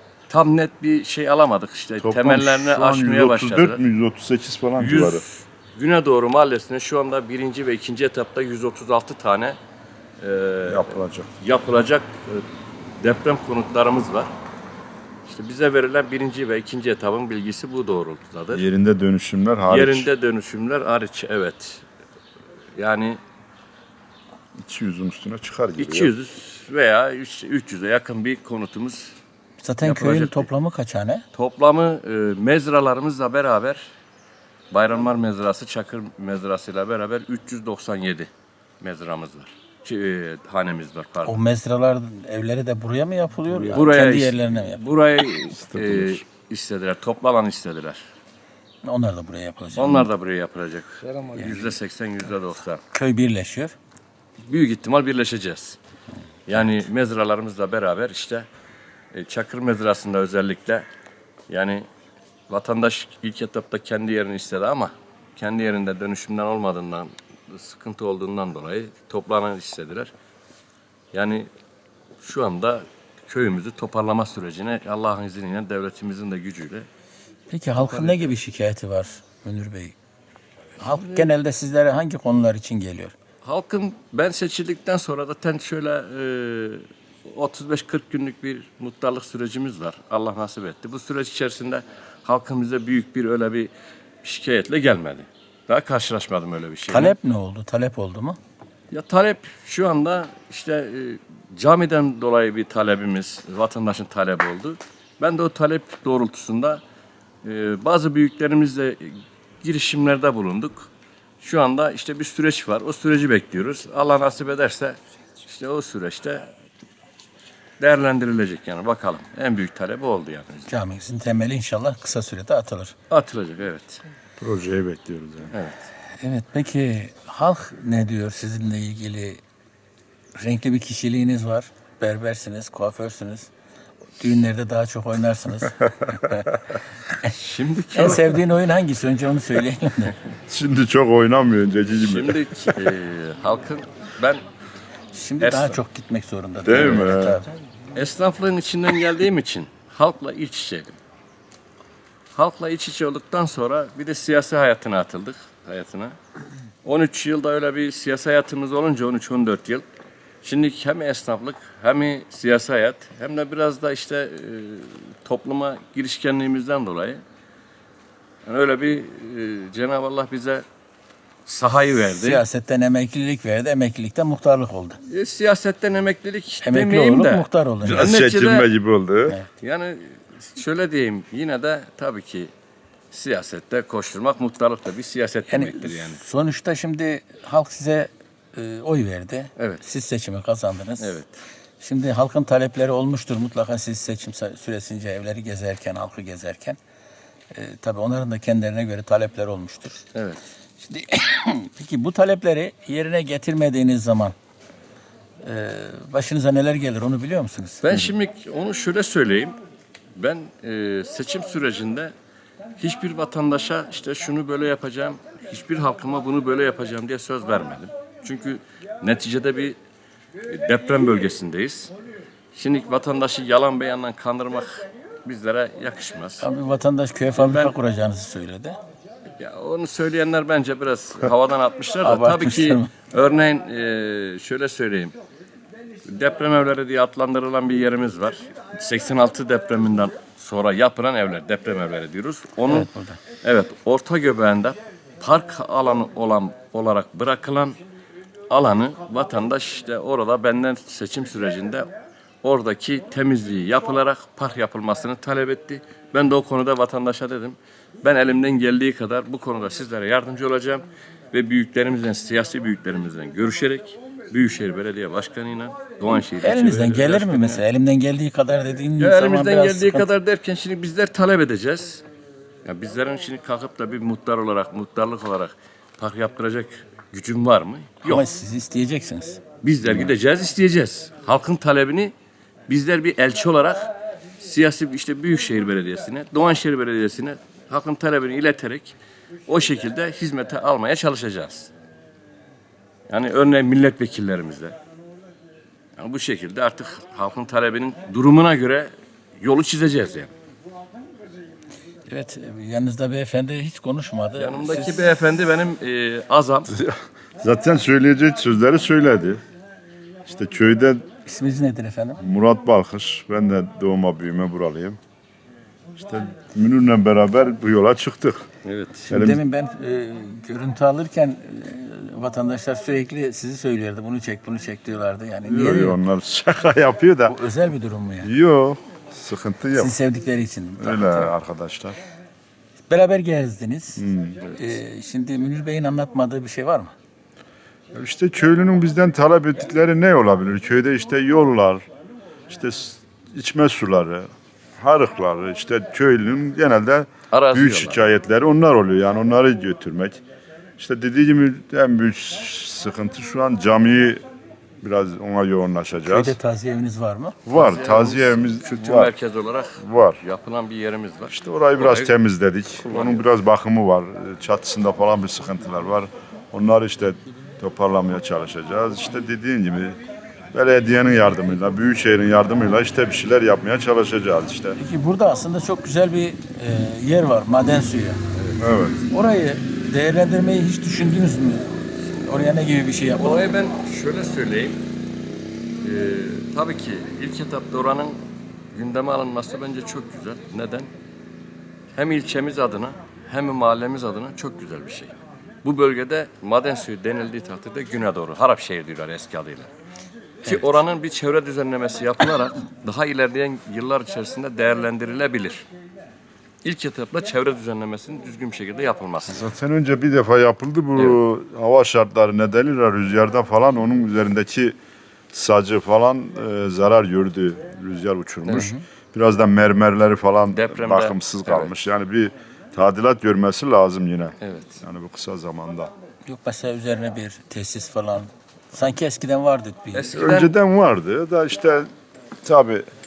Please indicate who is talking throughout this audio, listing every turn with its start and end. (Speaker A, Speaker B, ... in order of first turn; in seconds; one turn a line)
Speaker A: 0.3-3.8
Speaker B: 2.0-5.2
Speaker A: 4.8-9.6
Speaker A: 10.2-12.4
Speaker B: 10.7-11.3
Speaker A: 13.0-14.3
Speaker A: 15.3-18.6
Speaker B: 18.5-20.1
Speaker A: 19.7-21.9
Speaker A: 22.8-23.2
Speaker B: 24.6-26.1
Speaker A: 25.8-29.1
Speaker C: 29.6-31.2
Speaker A: 29.8-30.5
Speaker A: 31.3-33.9
Speaker A: 34.7-41.4
Speaker C: 41.2-44.8
Speaker B: 43.5-43.9
Speaker A: 43.7-48.0
Speaker B: 45.6-46.2
Speaker C: 48.8-50.1
Speaker A: 49.8-52.8
Speaker C: 51.3-51.7
Speaker C: 52.9-53.8
Speaker A: 54.4-55.8
Speaker A: 56.5-58.5
Speaker A: 59.1-60.9
Speaker A: 61.5-61.9
Speaker A: 62.5-70.1
Speaker A: 71.1-71.5
Speaker A: 72.2-76.9
Speaker C: 77.5-80.0
Speaker A: 77.8-78.3
Speaker C: 80.8-83.2
Speaker A: 83.4-93.7
Speaker A: 94.2-97.2
Speaker C: 96.9-98.4
Speaker A: 98.9-106.8
Speaker A: 107.4-116.5
Speaker A: 117.8-120.7
Speaker C: 120.7-123.0
Speaker A: 123.1-124.0
Speaker B: 124.4-125.5
Speaker A: 125.5-125.8
Speaker C: 126.2-129.4
Speaker C: 130.3-133.5
Speaker C: 134.2-136.6
Speaker A: 137.3-138.3
Speaker C: 137.9-140.2
Speaker B: 140.5-142.8
Speaker A: 142.0-144.4
Speaker C: 145.1-147.5
Speaker A: 145.4-145.8
Speaker B: 146.6-147.4
Speaker A: 146.7-147.2
Speaker A: 147.9-151.0
Speaker A: 152.3-156.2
Speaker A: 156.8-159.8
Speaker A: 160.4-167.2
Speaker A: 168.4-170.7
Speaker A: 171.5-172.4
Speaker C: 172.1-175.0
Speaker A: 175.1-178.7
Speaker C: 176.6-178.1
Speaker B: 177.8-179.4
Speaker A: 179.6-182.5
Speaker A: 183.1-186.2
Speaker C: 185.5-191.2
Speaker A: 189.6-189.8
Speaker A: 191.0-191.4
Speaker C: 191.8-196.8
Speaker C: 197.5-200.1
Speaker A: 200.1-200.4
Speaker C: 200.8-204.3
Speaker C: 205.4-208.1
Speaker A: 207.8-209.6
Speaker A: 210.2-212.1
Speaker A: 212.8-219.8
Speaker A: 220.5-221.9
Speaker A: 222.6-226.5
Speaker C: 226.4-228.8
Speaker A: 227.3-227.8
Speaker A: 229.4-235.2
Speaker C: 232.0-232.9
Speaker A: 236.1-242.9
Speaker C: 242.7-243.2
Speaker A: 243.4-247.8
Speaker A: 248.5-251.9
Speaker A: 252.4-267.6
Speaker C: 266.1-270.1
Speaker A: 269.0-272.0
Speaker A: 272.6-278.2
Speaker C: 278.0-280.1
Speaker A: 279.6-282.1
Speaker A: 282.7-289.0
Speaker A: 289.5-291.7
Speaker A: 293.1-294.8
Speaker A: 296.0-300.3
Speaker C: 302.1-305.1
Speaker A: 304.4-306.7
Speaker B: 306.8-309.4
Speaker B: 310.2-311.0
Speaker C: 311.2-312.2
Speaker B: 312.2-315.0
Speaker B: 316.0-318.4
Speaker A: 318.6-319.1
Speaker C: 319.1-326.0
Speaker B: 319.1-319.4
Speaker B: 325.4-327.4
Speaker C: 327.3-328.3
Speaker B: 328.2-329.9
Speaker C: 329.7-331.3
Speaker B: 330.8-332.0
Speaker C: 332.9-334.0
Speaker B: 334.0-334.4
Speaker A: 334.4-334.8
Speaker C: 334.6-336.9
Speaker B: 337.9-341.9
Speaker B: 342.5-350.2
Speaker A: 347.3-348.1
Speaker B: 350.8-354.2
Speaker B: 354.8-356.4
Speaker C: 356.1-357.4
Speaker B: 357.4-359.1
Speaker A: 357.5-362.1
Speaker B: 359.8-360.2
Speaker B: 361.3-370.0
Speaker A: 362.8-363.3
Speaker B: 370.5-374.8
Speaker C: 374.8-378.2
Speaker A: 378.3-378.6
Speaker B: 378.6-379.0
Speaker C: 379.1-383.5
Speaker A: 383.2-384.8
Speaker A: 385.8-388.2
Speaker A: 388.7-390.9
Speaker A: 391.9-399.7
Speaker A: 400.4-405.7
Speaker C: 400.5-400.8
Speaker A: 406.6-409.5
Speaker B: 409.3-414.8
Speaker B: 415.3-425.9
Speaker C: 418.5-418.8
Speaker A: 420.5-421.8
Speaker A: 424.4-424.8
Speaker C: 426.3-430.1
Speaker A: 429.9-430.5
Speaker B: 430.2-431.9
Speaker B: 432.4-432.9